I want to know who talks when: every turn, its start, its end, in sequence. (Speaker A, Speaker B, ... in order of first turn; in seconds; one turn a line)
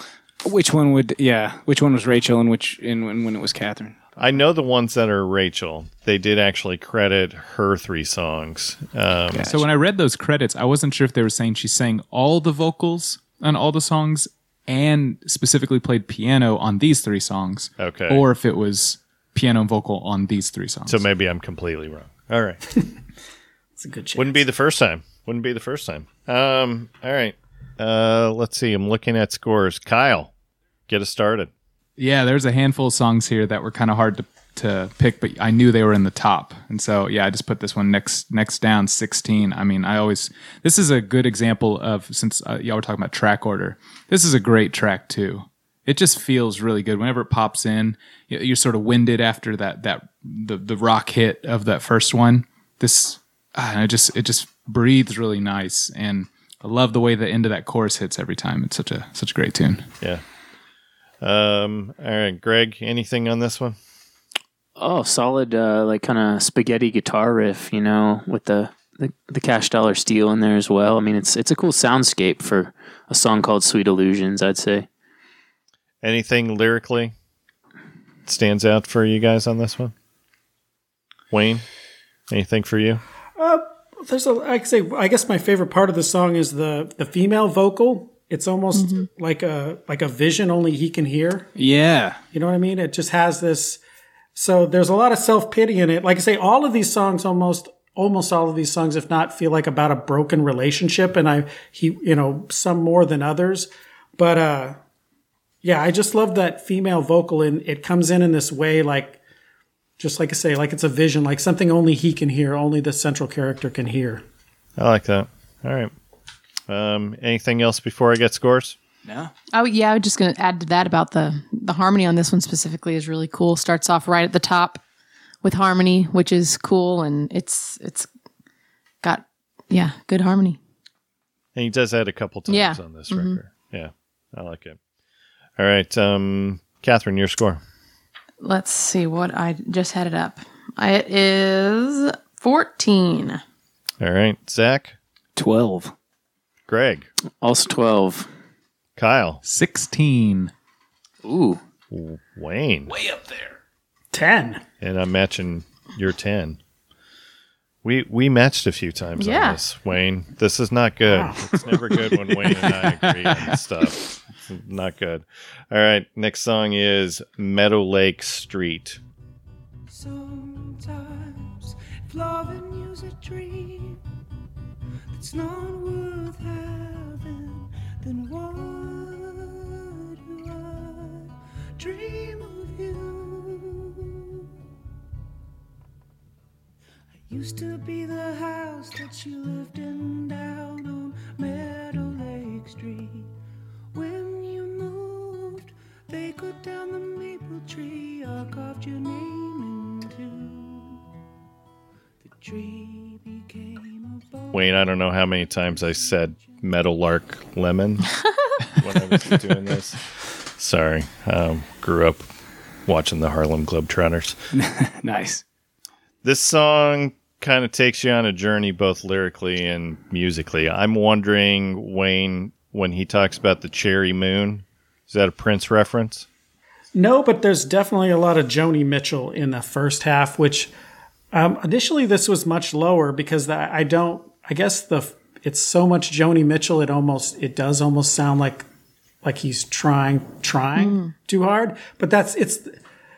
Speaker A: 0.4-4.0
Speaker B: 4.2-9.6
Speaker A: 9.3-9.6
Speaker C: 9.5-21.0
Speaker B: 17.8-18.2
Speaker B: 20.9-22.6
Speaker D: 23.8-24.4
Speaker B: 24.1-30.3
Speaker B: 30.9-31.5
Speaker C: 32.0-59.9
Speaker B: 61.2-63.8
Speaker E: 64.8-74.9
Speaker B: 76.0-77.1
Speaker B: 78.2-79.9
Speaker B: 81.3-81.6
Speaker B: 82.3-83.0
Speaker D: 83.4-91.5
Speaker F: 88.8-89.0
Speaker A: 91.5-92.2
Speaker D: 92.3-93.8
Speaker D: 94.3-104.8
Speaker D: 105.6-109.2
Speaker D: 110.0-114.2
Speaker B: 114.8-115.9
Speaker B: 116.7-118.8
Speaker A: 119.0-119.3
Speaker F: 119.5-124.8
Speaker F: 125.4-128.1
Speaker F: 129.0-130.6
Speaker B: 131.5-134.8
Speaker F: 132.5-133.4
Speaker B: 135.6-137.6
Speaker F: 138.4-143.4
Speaker B: 144.0-144.9
Speaker A: 145.3-145.9
Speaker B: 146.7-147.1
Speaker E: 147.4-148.3
Speaker B: 149.0-149.4
Speaker C: 149.4-150.5
Speaker E: 151.2-151.6
Speaker B: 151.9-152.9
Speaker A: 152.9-153.5
Speaker D: 154.1-154.6
Speaker B: 154.8-156.6
Speaker B: 157.8-169.0
Speaker F: 159.2-159.6
Speaker D: 161.1-161.6
Speaker C: 162.2-163.5
Speaker G: 169.9-174.0
Speaker G: 175.1-184.4
Speaker G: 187.3-193.3
Speaker G: 193.9-201.0
Speaker G: 202.2-204.8
Speaker B: 204.5-208.2
Speaker B: 208.8-212.2
Speaker B: 212.8-214.4
Speaker A: 214.5-215.4
Speaker B: 216.2-226.2
Speaker D: 226.9-230.7
Speaker D: 231.3-238.7
Speaker D: 239.2-242.8
Speaker F: 240.8-241.1